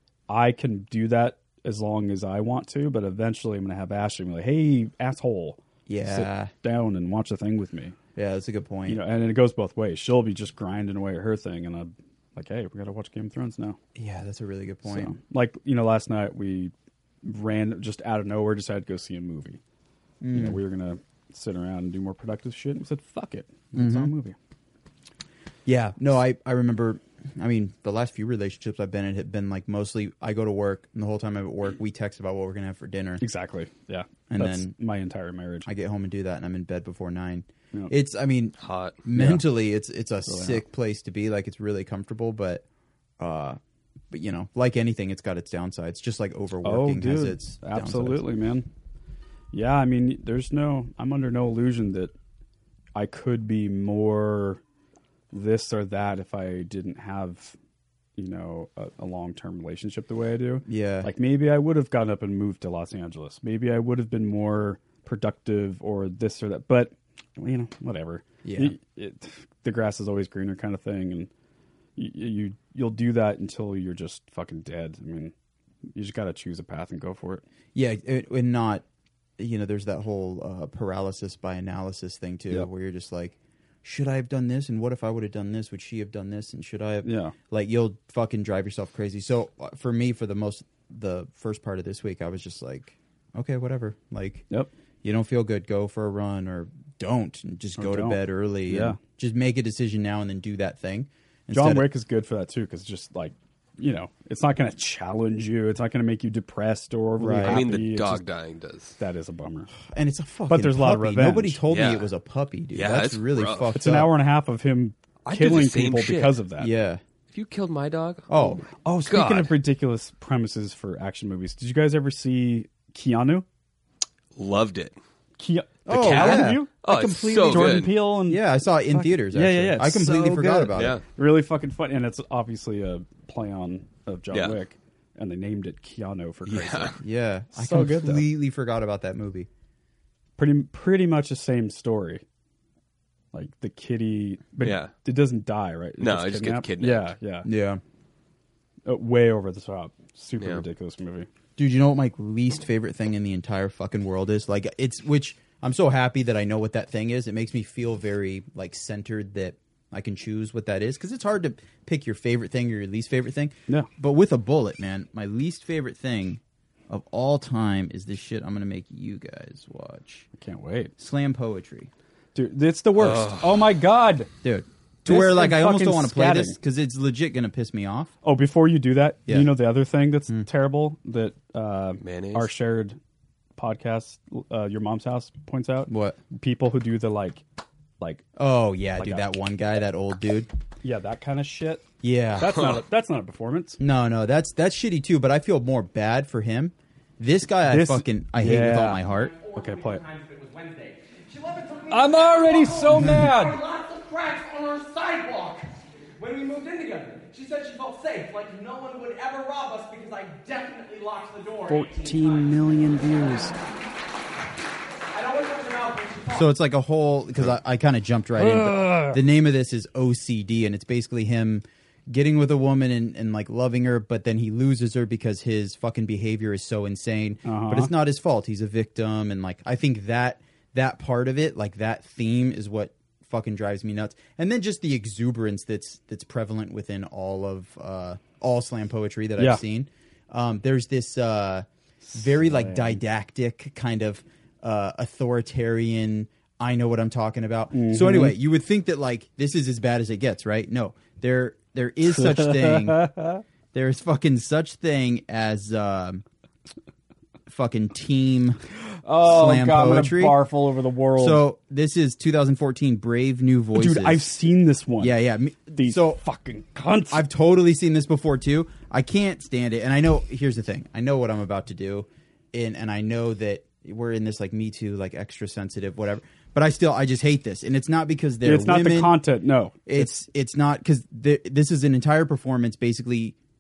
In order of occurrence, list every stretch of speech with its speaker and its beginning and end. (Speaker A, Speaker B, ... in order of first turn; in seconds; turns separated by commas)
Speaker A: 0.3-8.0, Speaker B: 5.9-6.5, Speaker B: 8.2-9.0, Speaker A: 8.9-13.8, Speaker B: 13.9-15.2, Speaker A: 14.8-19.6, Speaker B: 20.2-20.6, Speaker A: 20.3-24.4, Speaker B: 23.7-24.1, Speaker B: 25.7-33.2, Speaker A: 33.2-35.7, Speaker B: 34.3-34.7, Speaker B: 35.7-42.6, Speaker C: 38.6-39.0, Speaker A: 39.1-39.5, Speaker A: 40.3-40.6, Speaker B: 43.2-43.6, Speaker B: 44.1-48.2, Speaker A: 46.6-48.7, Speaker A: 49.5-52.1, Speaker A: 53.0-54.6, Speaker A: 55.3-57.6, Speaker A: 58.2-71.3, Speaker B: 60.7-61.1, Speaker B: 68.4-68.8, Speaker A: 72.0-75.3, Speaker A: 75.9-77.4, Speaker B: 77.8-78.8, Speaker B: 79.4-94.5, Speaker A: 87.0-87.3, Speaker B: 95.0-101.9, Speaker A: 97.8-99.0, Speaker A: 101.5-108.2, Speaker B: 107.2-107.7, Speaker C: 107.4-109.0, Speaker A: 109.0-109.7, Speaker B: 109.8-114.1, Speaker A: 110.5-111.6, Speaker C: 111.7-112.1, Speaker C: 112.7-113.7, Speaker A: 113.8-116.7, Speaker C: 115.3-116.4, Speaker B: 116.6-117.0, Speaker C: 117.3-118.3, Speaker B: 118.3-118.6, Speaker A: 118.8-123.5, Speaker C: 119.1-119.5, Speaker C: 124.4-125.0, Speaker A: 125.4-126.8, Speaker B: 125.9-131.0, Speaker C: 125.9-127.9, Speaker A: 127.5-137.0, Speaker C: 130.8-131.0, Speaker C: 134.3-134.6, Speaker C: 136.5-137.0, Speaker B: 137.0-139.5, Speaker A: 137.5-138.3, Speaker A: 140.4-142.2, Speaker A: 143.3-147.5, Speaker C: 144.6-144.9, Speaker C: 146.0-147.1, Speaker B: 147.4-147.8, Speaker A: 148.9-151.3, Speaker C: 150.4-150.6, Speaker B: 151.6-170.3, Speaker A: 170.4-170.9, Speaker B: 171.0-171.9, Speaker A: 172.3-174.3, Speaker C: 173.0-173.7, Speaker B: 174.4-178.1, Speaker A: 175.1-176.6, Speaker A: 178.2-183.0, Speaker B: 179.3-179.5, Speaker C: 182.0-182.5, Speaker A: 183.6-187.4, Speaker B: 185.9-186.2, Speaker A: 188.0-188.2, Speaker B: 188.4-190.5, Speaker A: 189.0-189.3, Speaker A: 190.8-193.8, Speaker B: 192.0-192.6, Speaker C: 192.4-192.8, Speaker B: 193.8-199.3, Speaker A: 197.7-199.0, Speaker D: 199.0-205.7, Speaker A: 199.6-200.0, Speaker A: 201.9-203.6, Speaker D: 206.2-213.5, Speaker A: 211.7-213.6, Speaker D: 215.1-216.5, Speaker B: 216.3-253.1, Speaker A: 218.4-219.2, Speaker A: 227.4-227.9, Speaker A: 239.4-239.6, Speaker A: 242.0-243.0, Speaker A: 247.7-248.4, Speaker A: 252.1-253.4, Speaker B: 253.7-256.2, Speaker B: 257.5-258.6, Speaker A: 259.0-261.4, Speaker B: 259.2-260.4, Speaker B: 261.2-264.3, Speaker A: 263.8-265.2, Speaker B: 265.0-266.2, Speaker A: 265.7-267.2, Speaker B: 267.1-279.2, Speaker A: 278.4-280.2, Speaker B: 279.9-283.4